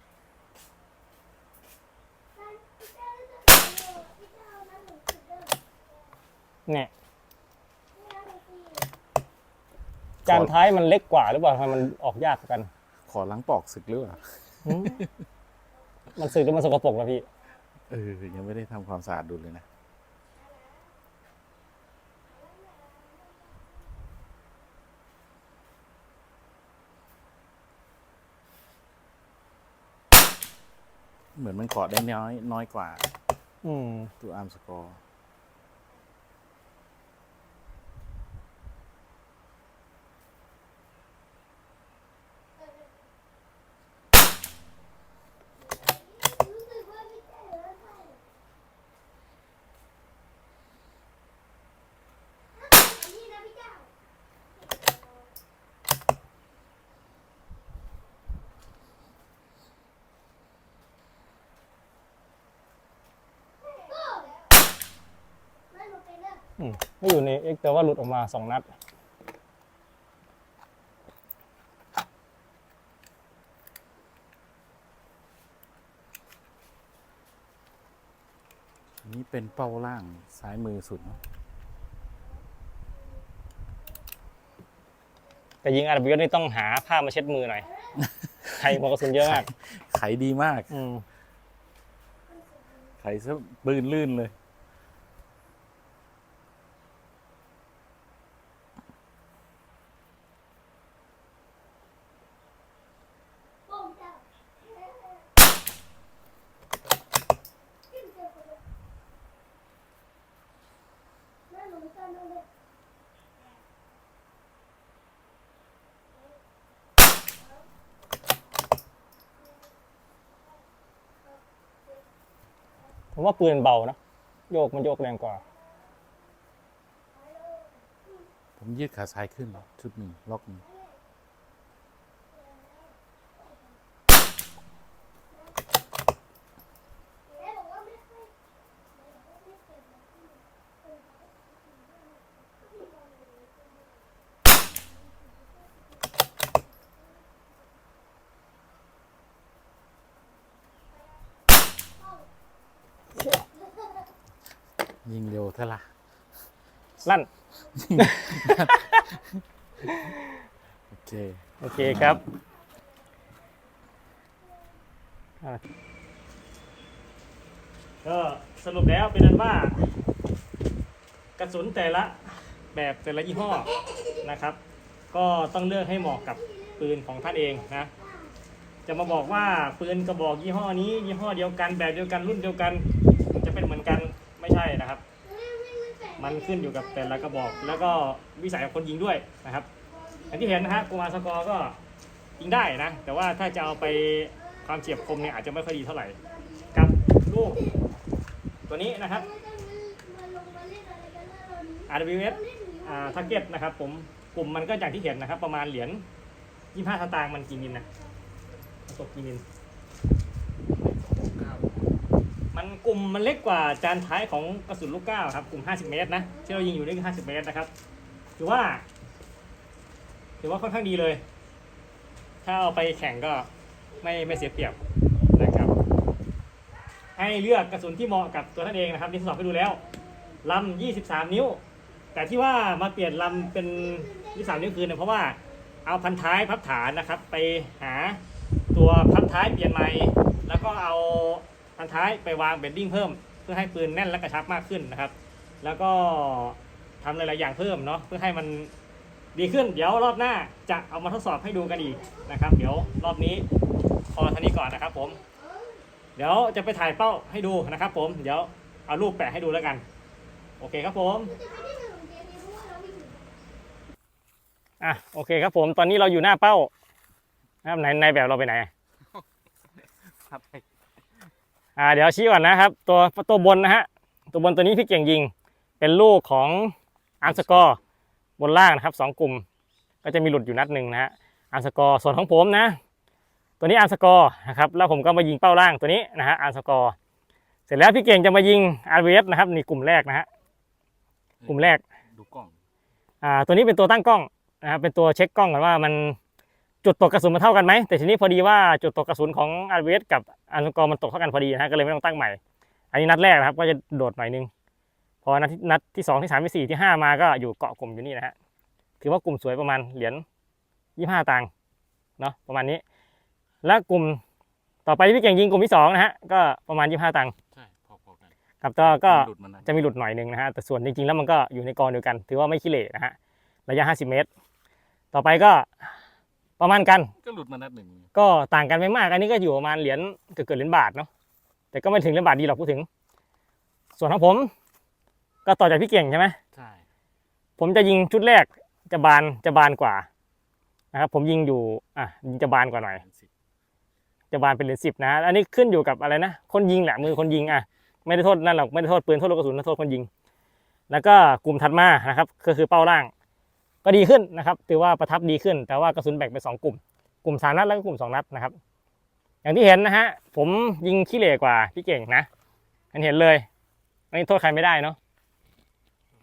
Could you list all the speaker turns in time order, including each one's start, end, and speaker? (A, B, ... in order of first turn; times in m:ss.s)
0:02.4-0:05.6 A
0:08.0-0:08.9 A
0:10.2-0:10.5 B
0:10.2-0:12.7 C
0:13.1-0:15.1 B
0:14.6-0:15.0 C
0:16.2-0:17.3 C
0:17.9-0:19.6 B
0:31.4-0:33.1 B
0:33.6-0:34.1 C
0:34.2-0:35.0 B
0:45.9-0:48.2 A
0:52.6-0:53.9 A
1:03.7-1:04.4 A
1:05.7-1:06.4 A
1:06.6-1:08.7 C
1:19.0-1:21.2 B
1:25.6-1:27.7 C
1:28.0-1:30.7 B
1:28.6-1:29.5 C
1:30.7-1:31.0 C
1:33.0-1:34.3 B
1:43.7-1:44.2 A
1:47.9-1:48.6 A
1:51.5-1:52.4 A
2:03.2-2:04.0 C
2:04.5-2:05.4 C
2:07.5-2:07.8 A
2:08.6-2:10.6 B
2:17.3-2:18.3 A
2:19.0-2:21.3 A
2:22.5-2:23.1 A
2:33.2-2:33.4 C
2:35.0-2:35.9 B
2:37.7-2:39.4 B
2:38.0-2:39.1 C
2:39.8-2:40.4 C
2:40.9-2:42.2 B
2:41.6-2:42.2 C
2:48.0-2:49.9 C
2:51.4-2:53.7 C
2:54.2-2:54.6 C
2:55.1-2:57.9 C
2:56.3-2:58.3 A
2:58.9-3:05.0 C
3:05.2-3:08.0 A
3:06.2-3:09.7 C
3:09.9-3:10.6 A
3:10.3-3:11.8 C
3:12.4-3:16.2 C
3:14.4-3:14.7 A
3:16.2-3:17.8 A
3:16.7-3:17.6 C
3:18.7-3:19.3 C
3:19.1-3:23.5 A
3:21.9-3:26.0 C
3:26.7-3:27.9 C
3:28.9-3:29.4 C
3:31.2-3:31.7 B
3:32.5-3:37.7 C
3:38.4-3:38.8 C
3:40.4-3:41.2 C
3:42.4-3:43.5 C
3:44.0-3:44.8 C
3:45.3-3:45.7 C
3:47.2-3:49.8 C
3:49.8-3:50.3 A
3:50.4-3:51.6 C
3:52.1-3:58.2 C
3:53.5-3:54.7 A
3:58.7-4:08.7 C
4:09.3-4:13.4 C
4:12.0-4:13.0 A
4:14.1-4:15.2 C
4:15.3-4:15.8 A
4:16.2-4:19.8 C
4:20.6-4:21.4 C
4:21.3-4:23.3 A
4:24.8-4:26.7 C
4:27.6-4:28.7 C
4:30.1-4:30.6 B
4:31.8-4:37.8 C
4:37.3-4:37.7 B
4:38.4-4:39.4 C
4:40.0-4:42.8 C
4:43.6-4:47.0 C
4:47.7-4:50.3 C
4:51.4-4:52.6 B
4:51.5-4:51.8 C
4:53.2-4:56.2 C
4:56.8-5:02.4 C
5:02.9-5:04.5 C
5:05.2-5:08.3 C
5:09.0-5:10.2 C
5:11.0-5:11.5 C
5:12.2-5:12.8 C
5:13.6-5:14.2 C
5:14.9-5:17.3 C
5:17.5-5:19.7 B
5:18.6-5:23.2 C
5:23.7-5:24.3 C
5:25.1-5:25.9 C
5:26.6-5:27.1 C
5:27.2-5:28.1 B
5:28.1-5:31.1 C
5:31.7-5:32.9 C
5:34.0-5:34.5 C
5:35.4-5:36.4 C
5:36.5-5:36.8 B
5:37.6-5:40.1 C
5:40.9-5:43.0 C
5:43.0-5:43.3 B
5:44.3-5:50.1 C
5:50.9-5:53.1 C
5:53.8-5:58.6 C
5:59.4-6:02.3 C
6:02.9-6:03.5 C
6:04.1-6:05.0 C